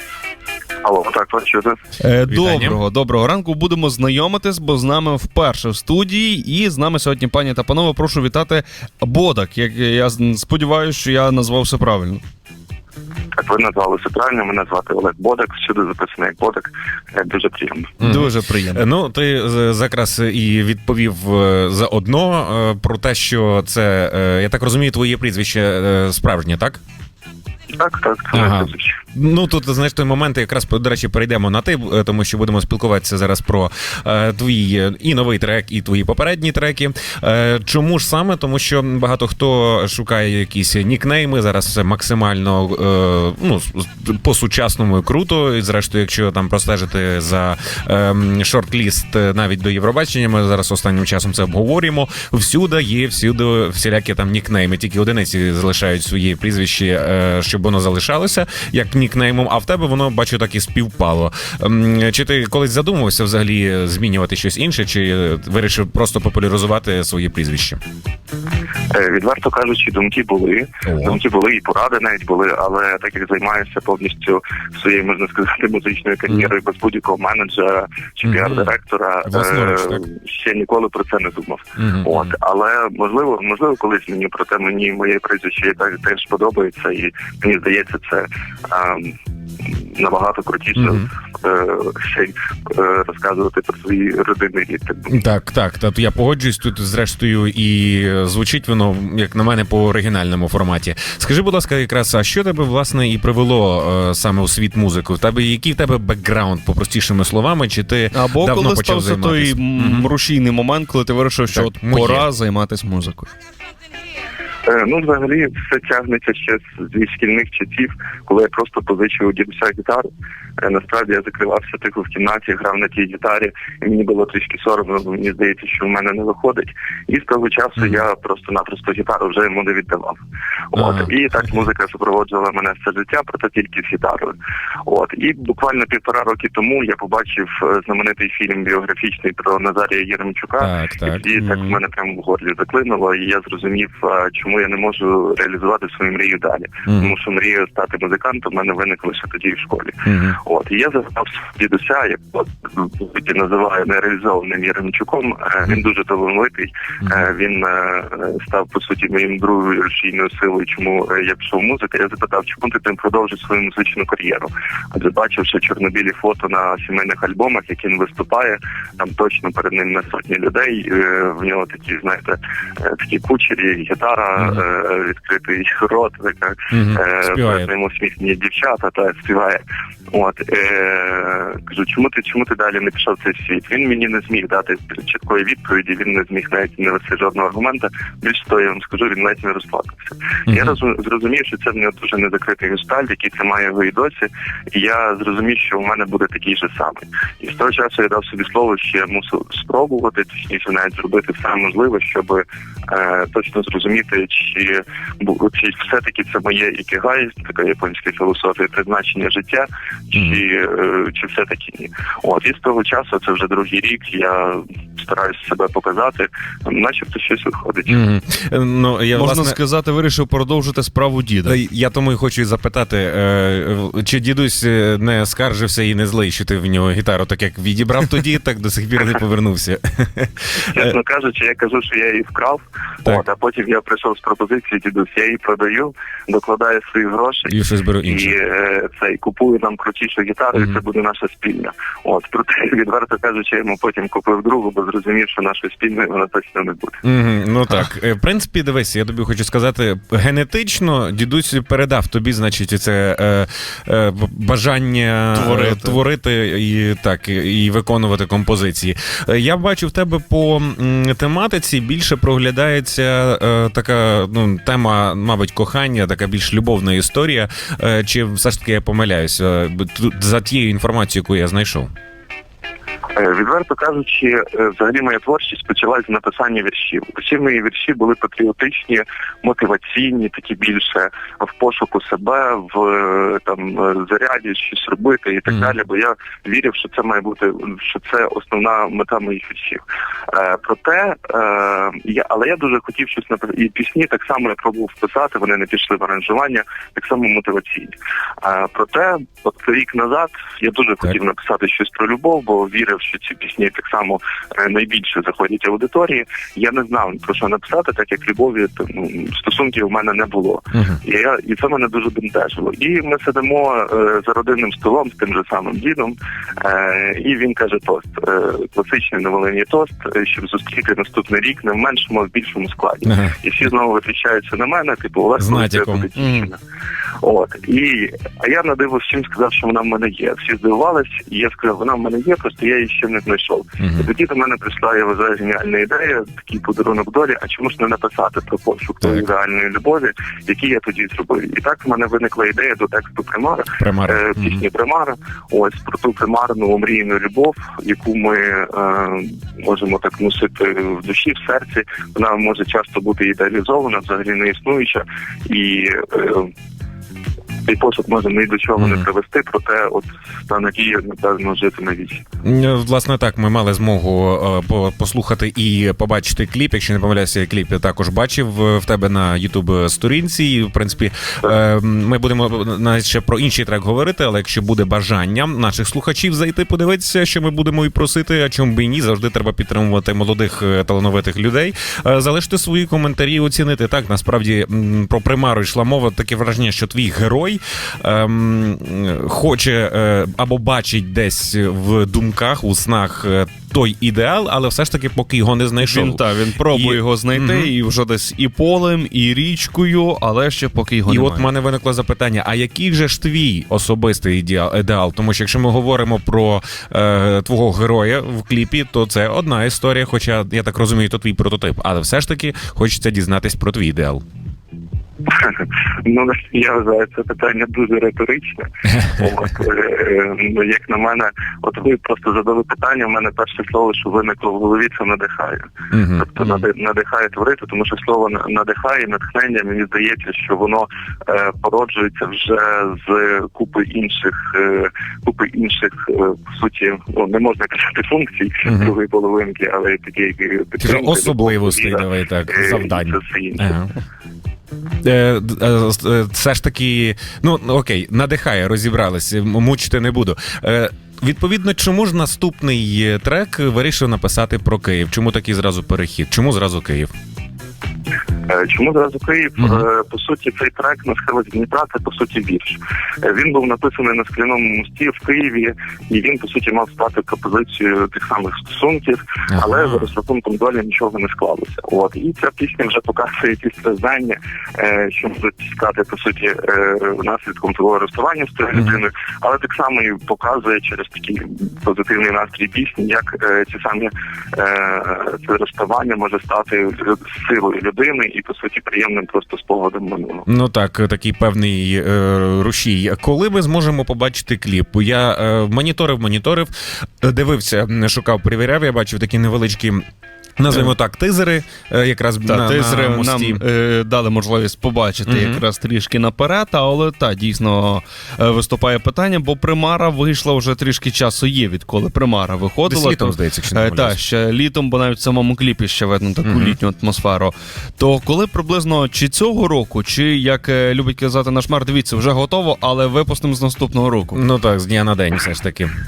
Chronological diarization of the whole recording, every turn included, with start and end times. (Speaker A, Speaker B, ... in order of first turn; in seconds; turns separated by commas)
Speaker A: 0.8-1.8, Speaker B: 2.0-12.2, Speaker C: 2.3-2.8, Speaker A: 13.3-17.9, Speaker C: 18.0-26.8, Speaker B: 18.0-18.8, Speaker A: 27.7-29.0, Speaker C: 28.3-67.8, Speaker A: 68.9-95.1, Speaker C: 70.8-71.2, Speaker C: 78.2-78.7, Speaker C: 79.3-80.0, Speaker C: 81.8-82.3, Speaker C: 90.8-91.1, Speaker C: 95.1-110.1, Speaker B: 108.1-113.3, Speaker C: 111.5-112.3, Speaker A: 114.7-120.1, Speaker A: 120.6-130.2, Speaker C: 130.7-131.1, Speaker A: 130.7-134.3, Speaker A: 134.8-218.0, Speaker C: 140.6-141.3, Speaker B: 141.4-141.8, Speaker C: 146.9-147.1, Speaker C: 150.0-150.4, Speaker C: 176.7-177.7, Speaker C: 190.5-190.7, Speaker C: 210.1-210.4, Speaker C: 217.9-219.6, Speaker B: 219.1-221.6, Speaker C: 221.4-230.8, Speaker A: 230.6-247.0, Speaker C: 237.5-238.3, Speaker C: 247.0-271.9, Speaker B: 255.3-256.0, Speaker A: 273.1-326.6, Speaker C: 323.0-323.4, Speaker C: 325.4-326.1, Speaker B: 326.2-326.5, Speaker A: 327.2-356.5, Speaker C: 333.8-334.1, Speaker C: 343.8-344.6, Speaker A: 357.6-362.2, Speaker C: 358.8-359.0, Speaker C: 362.4-397.7, Speaker B: 395.8-401.5, Speaker C: 401.1-414.2, Speaker A: 415.3-443.7, Speaker C: 425.9-426.6, Speaker C: 438.6-438.9, Speaker C: 440.8-443.9, Speaker C: 445.0-457.1, Speaker A: 458.4-490.5, Speaker C: 469.5-470.1, Speaker C: 490.5-496.7, Speaker C: 497.2-500.0, Speaker C: 500.6-503.6, Speaker B: 502.4-524.4, Speaker C: 505.3-505.6, Speaker C: 512.9-514.2, Speaker C: 516.4-516.8, Speaker C: 524.3-525.9